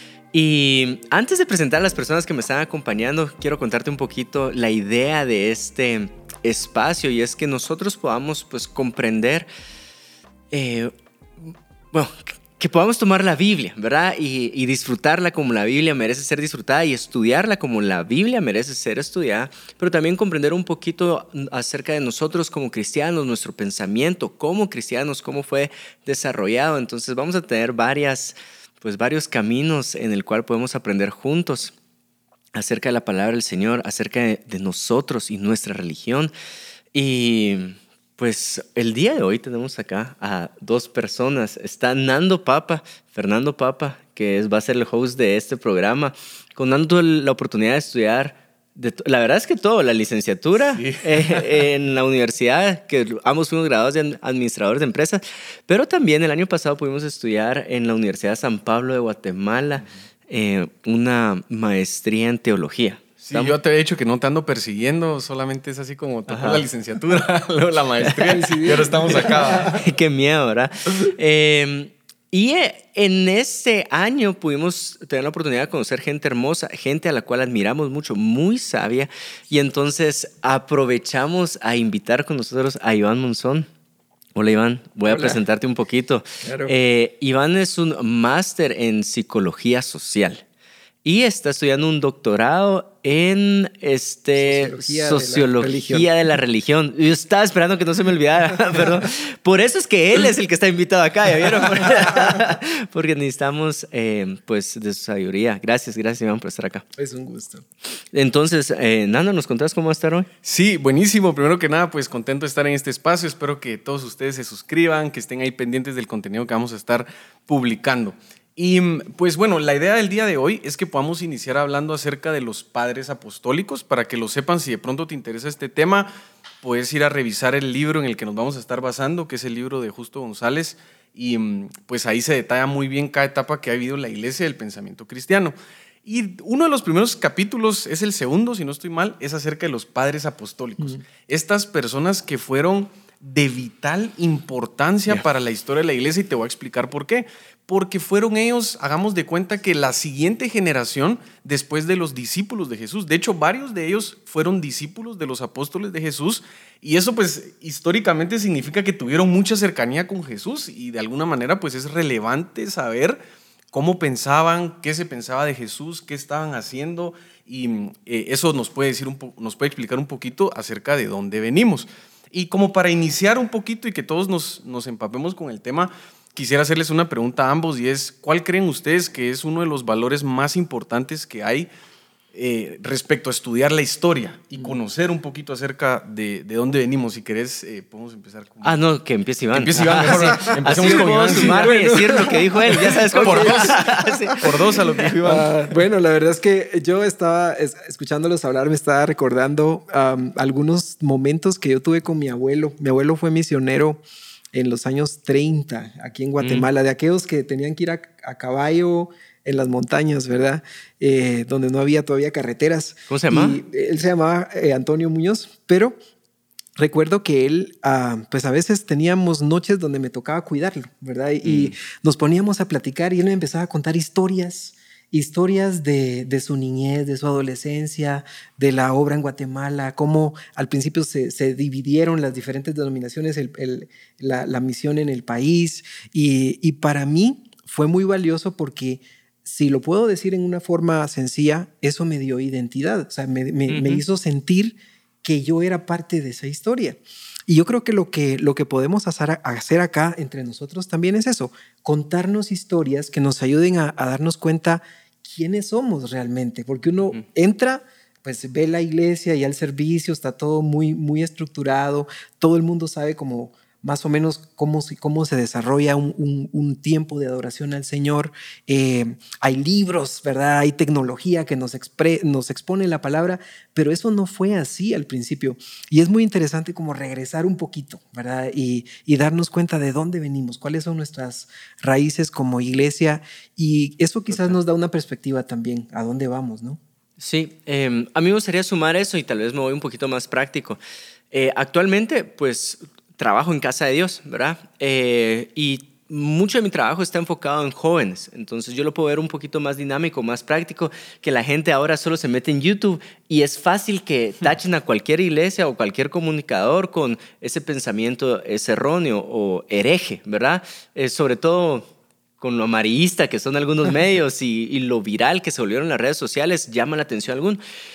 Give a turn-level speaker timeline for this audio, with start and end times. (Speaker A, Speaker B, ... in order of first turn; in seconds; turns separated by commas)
Speaker A: 0.3-9.5, Speaker A: 10.5-31.7, Speaker A: 32.5-36.3, Speaker A: 36.9-63.5, Speaker B: 50.8-51.6, Speaker B: 63.2-69.8, Speaker A: 66.3-66.6, Speaker A: 68.0-68.5, Speaker C: 68.3-69.8, Speaker A: 69.1-83.7, Speaker A: 84.3-90.4, Speaker C: 85.1-85.4, Speaker C: 86.4-86.7, Speaker A: 91.0-106.8, Speaker C: 94.4-96.1, Speaker C: 102.1-102.5, Speaker C: 107.0-107.6, Speaker A: 108.1-110.3, Speaker B: 110.4-126.1, Speaker B: 126.6-163.2, Speaker B: 163.7-181.7, Speaker B: 182.3-188.8, Speaker A: 188.6-195.1, Speaker B: 189.5-195.5, Speaker C: 190.2-194.5, Speaker C: 195.2-204.0, Speaker C: 204.5-216.0, Speaker A: 206.4-206.7, Speaker A: 213.1-213.6, Speaker C: 216.8-286.8, Speaker A: 221.4-221.7, Speaker A: 243.7-244.0, Speaker A: 287.2-290.8, Speaker A: 291.3-311.9, Speaker A: 312.4-317.6